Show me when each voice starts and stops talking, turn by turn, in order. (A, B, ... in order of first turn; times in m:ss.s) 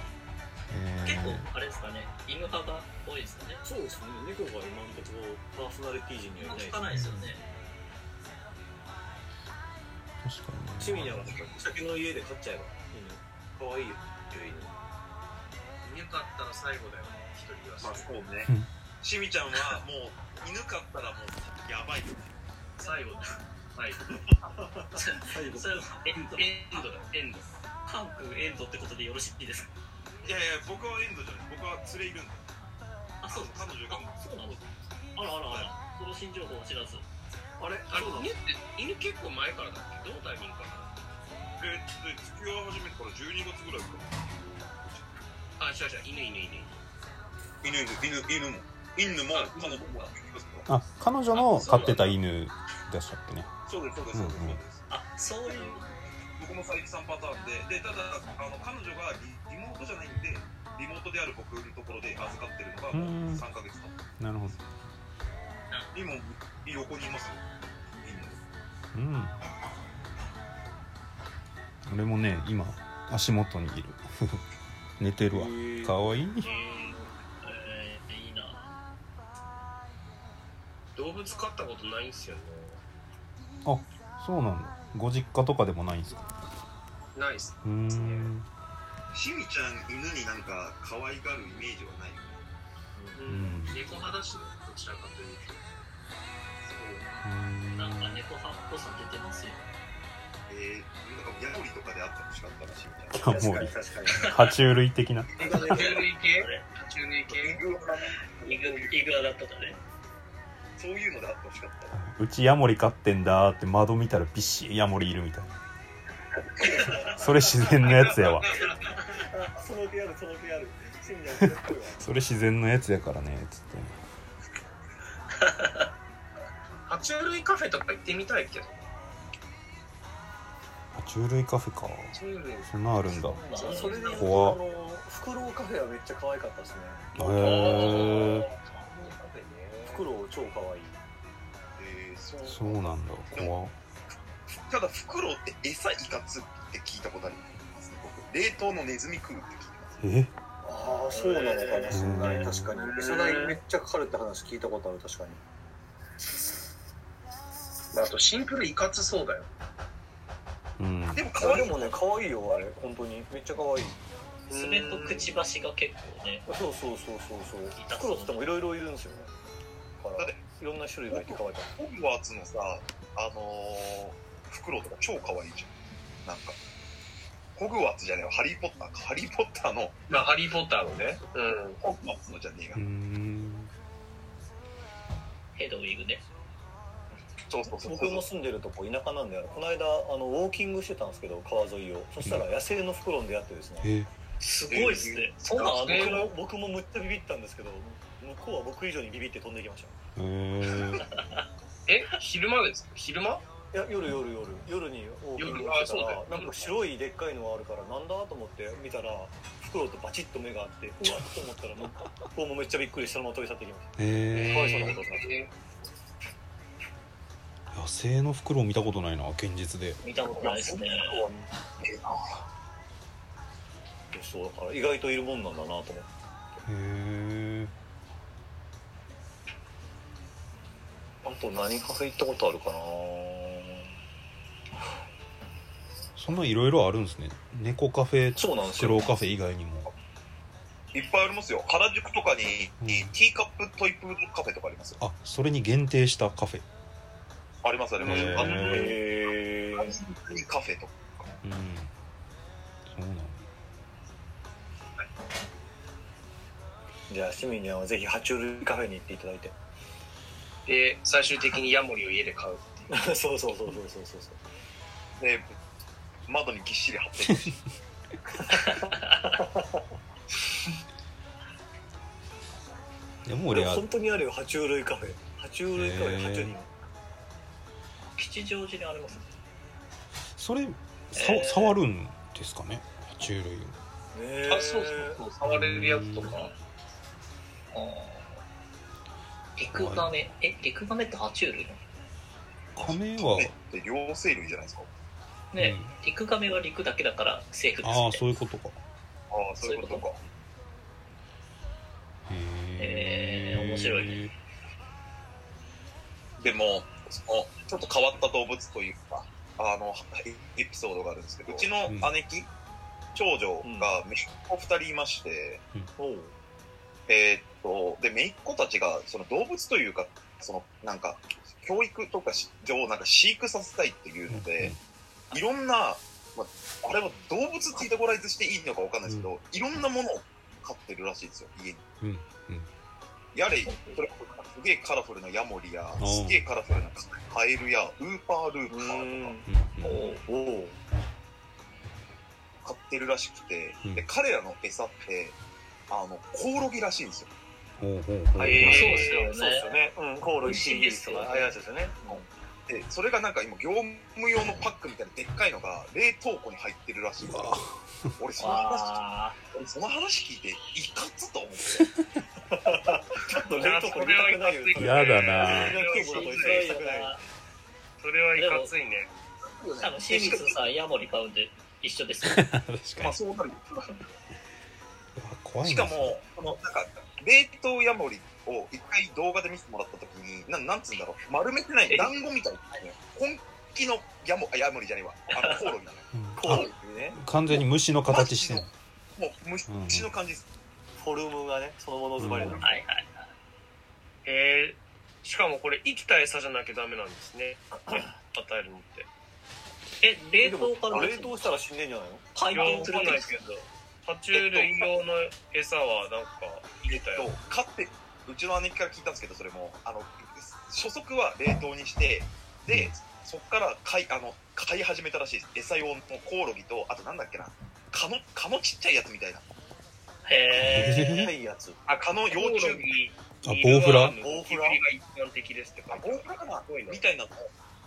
0:00.7-0:01.5 A
0:01.0-0:03.6 B
0:03.6-0:06.8 C
0:06.4-0:07.4 B
0:06.9-0:07.3 A
0:10.2-0:11.2 A
0:10.8-0:14.7 C
0:15.8-0:18.2 D
0:17.8-0:18.5 E
0:19.0-0:22.3 E
0:22.8-0:24.2 D
0:24.5-0:25.9 C
0:24.9-0:26.9 B
0:26.0-0:27.5 D
0:27.9-0:29.7 B
0:30.2-0:32.5 E
0:33.2-0:34.6 B
0:33.3-0:34.7 E
0:35.2-0:37.0 B
0:35.4-0:35.7 E
0:37.6-0:38.3 C
0:37.9-0:40.9 D
0:41.6-0:45.1 E
0:45.6-0:46.8 D
0:47.6-0:50.7 E
0:49.3-0:50.1 D
0:50.7-0:53.5 A
0:51.3-0:52.2 D
0:53.7-0:54.9 E
0:54.1-0:54.6 A
0:54.9-0:55.9 B
0:56.4-1:04.0 E
1:02.9-1:03.4 A
1:04.2-1:04.6 A
1:05.9-1:07.4 E
1:08.0-1:08.4 E
1:08.9-1:09.4 A
1:11.9-1:14.4 A
1:15.0-1:16.5 A
1:15.3-1:16.0 C
1:16.4-1:17.1 D
1:17.4-1:18.7 B
1:21.0-1:22.8 D
1:23.6-1:26.3 A
1:27.2-1:28.3 D
1:27.6-1:28.5 A
1:29.1-1:32.4 E
1:33.1-1:35.6 D
1:33.3-1:33.8 A
1:36.6-1:37.2 D
1:37.2-1:38.2 A
1:37.8-1:39.6 B
1:40.5-1:43.5 E
1:43.1-1:45.6 A
1:43.3-1:44.4 C
1:45.4-1:46.0 C
1:45.4-1:47.6 D
1:45.9-1:46.6 B
1:47.3-1:49.0 E
1:48.4-1:49.8 B
1:50.8-1:52.0 E
1:52.0-1:55.5 A
1:56.8-1:57.1 C
1:57.1-1:58.5 A
1:57.9-1:58.7 D
1:59.0-2:02.0 C
2:01.4-2:04.0 A
2:05.4-2:05.8 B
2:06.9-2:08.8 D
2:10.9-2:13.4 A
2:12.1-2:12.7 D
2:13.3-2:14.5 D
2:13.3-2:14.1 B
2:13.5-2:17.1 C
2:14.1-2:14.6 A
2:17.2-2:18.5 A
2:17.2-2:20.1 D
2:19.9-2:21.0 C
2:21.8-2:23.5 E
2:22.5-2:23.8 A
2:24.6-2:30.0 E
2:30.0-2:30.3 A
2:30.6-2:35.4 C
2:31.1-2:32.0 D
2:31.9-2:32.7 A
2:32.8-2:33.6 D
2:37.9-2:39.5 D
2:40.8-2:41.2 A
2:41.1-2:42.0 E
2:41.4-2:44.0 C
2:44.5-2:45.4 D
2:44.5-2:46.5 B
2:46.5-2:49.3 C
2:47.8-2:48.5 B
2:50.0-2:51.7 C
2:51.1-2:55.7 E
2:56.2-2:56.6 E
2:57.6-3:00.0 E
3:00.1-3:01.8 D
3:01.8-3:02.8 E
3:02.8-3:03.7 A
3:05.6-3:06.2 B
3:07.5-3:08.2 E
3:07.8-3:13.9 C
3:12.2-3:12.5 A
3:13.8-3:14.1 A
3:14.4-3:16.2 B
3:14.7-3:16.3 D
3:15.8-3:20.0 C
3:20.2-3:21.1 A
3:21.0-3:21.4 B
3:21.9-3:23.4 D
3:23.7-3:35.3 C
3:25.4-3:26.7 D
3:34.0-3:35.0 A
3:34.3-3:35.5 D
3:37.7-3:40.0 A
3:40.0-3:41.2 B
3:40.7-3:41.4 C
3:41.8-3:42.4 E
3:44.1-3:46.1 C
3:46.7-3:47.7 A
3:51.2-3:53.8 C
3:56.2-3:59.9 A
3:58.4-3:59.1 C
4:00.9-4:05.0 E
4:02.8-4:03.2 A
4:05.0-4:06.6 A
4:07.6-4:09.0 E
4:08.0-4:08.9 A
4:08.0-4:10.0 C
4:08.5-4:08.8 D
4:09.8-4:11.3 E
4:11.4-4:11.9 A
4:12.9-4:13.4 A
4:17.1-4:19.5 C
4:20.7-4:22.9 D
4:22.9-4:24.4 C
4:25.2-4:25.6 E
4:26.3-4:27.6 E
4:28.4-4:29.8 C
4:28.6-4:29.3 B
4:33.3-4:33.9 A
4:33.5-4:36.7 C
4:35.7-4:36.5 A
4:38.2-4:39.3 B
4:40.4-4:43.8 A
4:41.2-4:41.8 B
4:44.1-4:45.2 C
4:44.5-4:46.5 D
4:45.4-4:46.4 A
4:47.7-4:48.4 B
4:49.6-4:51.8 B
4:49.7-4:50.1 A
4:52.8-4:53.5 A
4:52.8-4:54.9 E
4:55.5-4:58.3 B
4:55.6-4:55.9 A
4:57.8-4:58.8 A
4:59.3-5:00.2 E
4:59.6-5:00.0 B
5:02.3-5:04.3 A
5:02.8-5:04.3 B
5:06.4-5:12.5 E
5:11.9-5:12.1 A
5:13.2-5:15.6 E
5:13.6-5:13.9 C
5:16.0-5:16.3 C
5:17.1-5:24.8 E
5:24.3-5:24.8 A
5:25.3-5:31.8 E
5:32.0-5:32.7 A
5:33.4-5:39.4 E
5:33.7-5:34.0 B
5:36.0-5:36.4 A
5:38.7-5:39.5 C
5:39.5-5:40.0 A
5:39.8-5:40.2 B
5:40.3-5:40.8 C
5:42.6-5:45.4 E
5:45.9-5:47.3 E
5:47.8-5:49.0 A
5:48.4-5:49.3 D
5:48.4-5:52.3 C
5:48.6-5:49.8 B
5:50.4-5:51.4 D
5:50.5-5:51.5 B
5:52.1-5:57.6 E
5:57.2-5:58.1 A
5:58.2-6:01.9 E
5:58.4-5:59.4 B
6:01.8-6:02.0 A
6:02.5-6:07.2 C
6:03.6-6:06.7 D
6:04.8-6:05.8 A
6:05.8-6:07.2 B
6:08.0-6:09.1 D
6:08.4-6:08.7 B
6:09.5-6:10.6 E
6:09.8-6:12.5 B
6:12.2-6:13.2 A
6:13.0-6:13.9 E
6:15.2-6:16.2 A
6:15.6-6:26.6 E
6:25.4-6:25.7 B
6:26.1-6:28.7 A
6:26.4-6:27.2 C
6:28.1-6:30.4 E
6:29.7-6:30.1 A
6:31.0-6:32.8 C
6:32.2-6:32.6 A
6:32.5-6:33.1 B
6:34.2-6:39.1 D
6:40.0-6:41.6 B
6:40.4-6:42.9 C
6:42.4-6:43.3 B
6:42.5-6:47.3 D
6:44.3-6:44.9 E
6:46.9-6:59.4 E
6:52.7-6:53.0 A
7:00.2-7:01.3 B
7:00.6-7:01.3 A
7:00.7-7:01.8 C
7:01.9-7:07.0 D
7:01.9-7:02.9 E
7:03.4-7:04.2 A
7:04.2-7:04.8 C
7:05.9-7:07.5 E